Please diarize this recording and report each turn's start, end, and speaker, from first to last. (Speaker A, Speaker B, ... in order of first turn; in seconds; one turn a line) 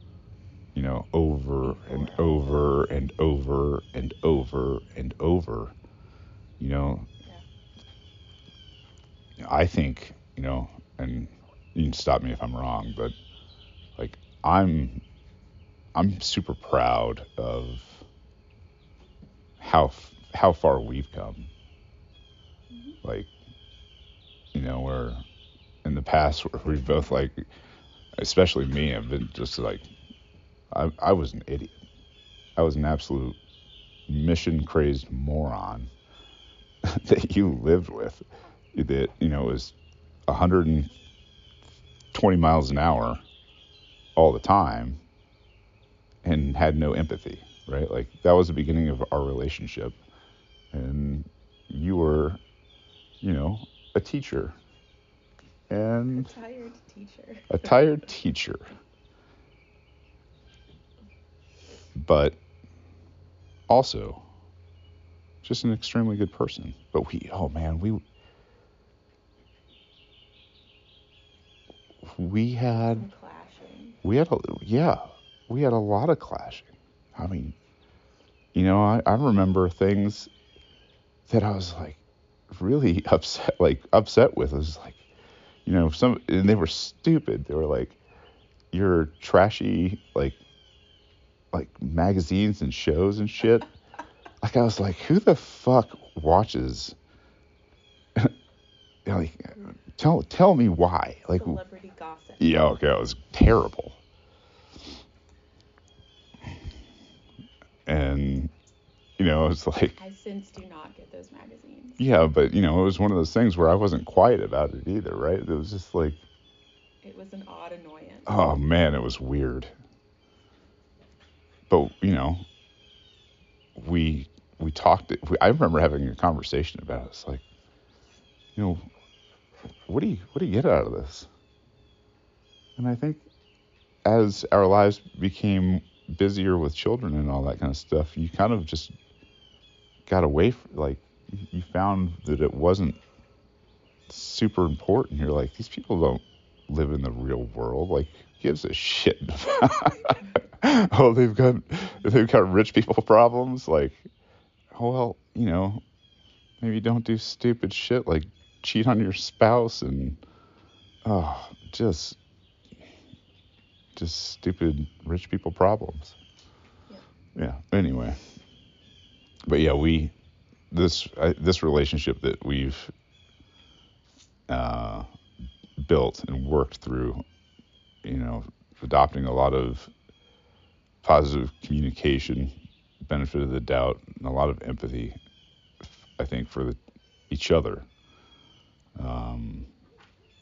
Speaker A: 0.8-5.7
Speaker B: 1.6-2.3
Speaker A: 6.6-7.1
Speaker A: 9.4-13.2
Speaker A: 14.0-15.0
Speaker A: 15.9-18.1
Speaker A: 19.6-21.5
Speaker B: 22.7-23.0
Speaker A: 23.0-23.3
Speaker A: 24.5-25.2
Speaker A: 25.8-27.4
Speaker A: 28.2-29.9
Speaker A: 30.7-31.8
Speaker A: 32.6-33.4
Speaker A: 34.1-35.9
Speaker A: 36.8-38.2
Speaker A: 38.7-39.8
Speaker A: 40.3-40.9
Speaker A: 42.1-43.2
Speaker A: 44.2-45.0
Speaker A: 46.2-50.0
Speaker A: 50.7-52.4
Speaker A: 53.2-54.5
Speaker A: 55.7-56.3
Speaker B: 56.1-57.9
Speaker A: 57.5-58.7
Speaker A: 62.0-62.4
Speaker A: 63.7-64.2
Speaker A: 65.4-68.0
Speaker A: 72.0-73.1
Speaker B: 73.0-74.0
Speaker A: 74.0-77.6
Speaker A: 78.5-80.3
Speaker A: 81.3-85.0
Speaker A: 85.7-88.0
Speaker A: 88.7-90.4
Speaker A: 91.5-93.7
Speaker A: 94.4-97.0
Speaker A: 99.1-101.6
Speaker B: 101.3-102.7
Speaker A: 102.4-104.0
Speaker A: 107.9-108.5
Speaker A: 109.2-110.0
Speaker B: 110.0-112.0
Speaker A: 112.0-116.2
Speaker B: 117.0-118.6
Speaker A: 118.3-119.7
Speaker A: 121.7-122.5
Speaker A: 123.8-127.4
Speaker A: 128.6-128.9
Speaker A: 129.9-131.3
Speaker A: 132.8-133.2
Speaker A: 134.1-138.9
Speaker A: 140.1-143.0
Speaker A: 144.1-154.0
Speaker A: 154.7-155.8
Speaker A: 156.6-160.2
Speaker A: 161.1-162.2
Speaker A: 164.0-166.2
Speaker A: 167.4-168.2
Speaker A: 169.5-170.1
Speaker A: 170.7-172.9
Speaker A: 174.5-175.1
Speaker A: 175.8-177.2
Speaker A: 178.0-179.9
Speaker A: 181.0-185.2
Speaker A: 185.8-186.8
Speaker A: 187.3-187.9
Speaker A: 189.0-189.7